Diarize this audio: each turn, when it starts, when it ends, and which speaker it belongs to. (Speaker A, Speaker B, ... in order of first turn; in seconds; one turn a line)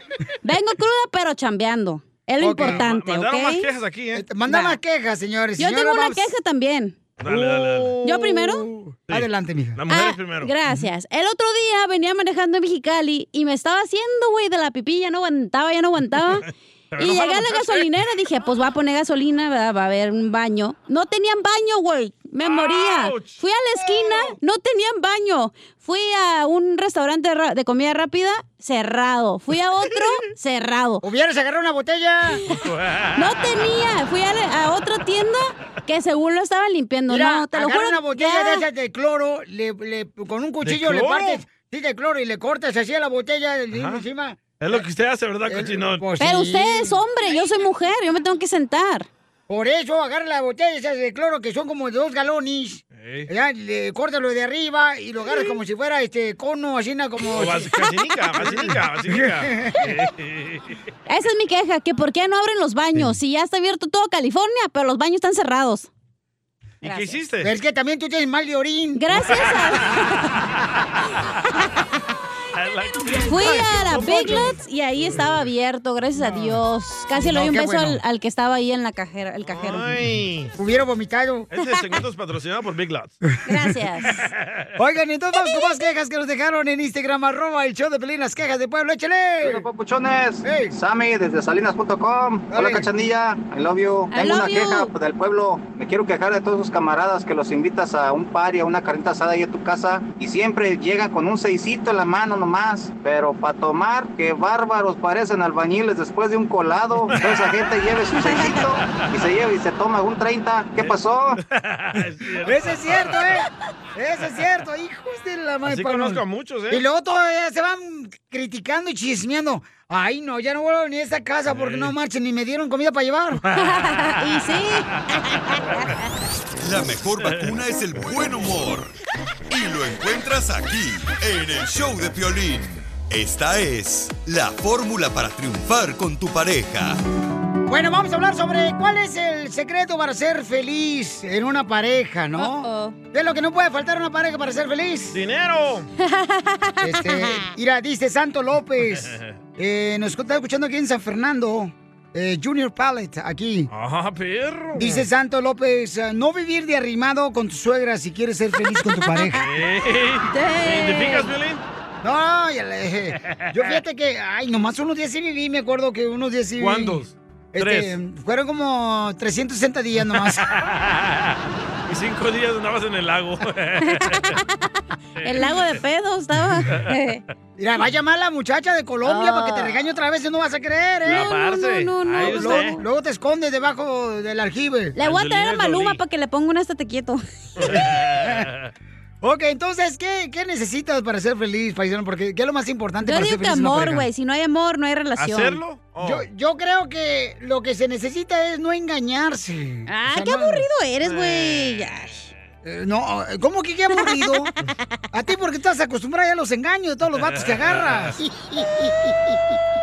Speaker A: 0.4-3.7
Speaker B: 2.4-2.8
Speaker C: 2.6-4.3
Speaker B: 4.2-6.3
Speaker A: 4.5-4.8
Speaker A: 5.6-7.0
Speaker C: 7.2-8.0
Speaker B: 7.2-9.8
Speaker A: 8.0-8.7
Speaker C: 9.1-10.5
Speaker A: 9.9-31.0
Speaker C: 16.3-17.9
Speaker C: 22.4-23.4
Speaker B: 31.0-32.4
Speaker C: 32.5-33.4
Speaker A: 33.2-38.6
Speaker B: 37.1-44.8
Speaker C: 40.6-41.4
Speaker C: 43.7-44.0
Speaker C: 44.6-46.1
Speaker B: 45.5-47.0
Speaker A: 46.2-49.1
Speaker B: 49.5-57.7
Speaker C: 52.9-53.3
Speaker C: 57.3-60.8
Speaker B: 58.5-59.9
Speaker A: 61.1-65.9
Speaker C: 66.8-67.5
Speaker A: 66.8-67.2
Speaker B: 67.4-69.0
Speaker A: 69.0-70.4
Speaker C: 69.2-70.6
Speaker C: 72.5-75.3
Speaker A: 73.1-80.0
Speaker B: 74.1-74.4
Speaker B: 76.3-76.5
Speaker B: 77.2-78.0
Speaker C: 79.5-80.5
Speaker B: 80.6-81.5
Speaker C: 81.5-83.2
Speaker A: 83.5-84.2
Speaker C: 84.1-84.7
Speaker B: 84.8-89.6
Speaker A: 85.5-85.8
Speaker D: 89.4-111.4
Speaker B: 90.4-90.7
Speaker B: 92.5-92.9
Speaker A: 94.1-94.9
Speaker C: 107.1-107.4
Speaker C: 110.8-113.3
Speaker B: 112.5-123.4
Speaker C: 115.7-116.8
Speaker C: 121.5-121.9
Speaker C: 123.5-124.2
Speaker A: 123.5-125.8
Speaker E: 126.6-128.9
Speaker C: 127.2-127.5
Speaker E: 129.5-137.0
Speaker B: 137.7-145.2
Speaker A: 142.4-143.0
Speaker C: 145.1-145.9
Speaker A: 146.0-147.4
Speaker B: 146.8-153.7
Speaker C: 148.9-149.3
Speaker C: 153.7-155.1
Speaker B: 154.8-159.5
Speaker C: 159.3-161.6
Speaker A: 160.3-161.3
Speaker B: 162.0-167.0
Speaker C: 163.3-163.7
Speaker C: 166.6-168.0
Speaker B: 167.5-170.5
Speaker C: 170.3-174.4
Speaker A: 173.8-177.2
Speaker C: 175.2-175.8
Speaker C: 176.7-177.0
Speaker B: 177.6-181.3
Speaker A: 179.0-179.8
Speaker C: 181.1-182.8
Speaker A: 181.1-182.8
Speaker B: 182.2-184.9
Speaker A: 185.0-187.2
Speaker C: 185.0-186.0
Speaker C: 187.6-188.7
Speaker B: 187.7-188.5
Speaker B: 189.2-194.1
Speaker A: 193.0-195.6
Speaker C: 195.2-196.3
Speaker B: 196.0-200.6
Speaker A: 199.9-202.2
Speaker C: 201.0-201.9
Speaker B: 202.6-204.5
Speaker A: 204.0-204.4
Speaker B: 205.1-209.4
Speaker C: 207.2-208.2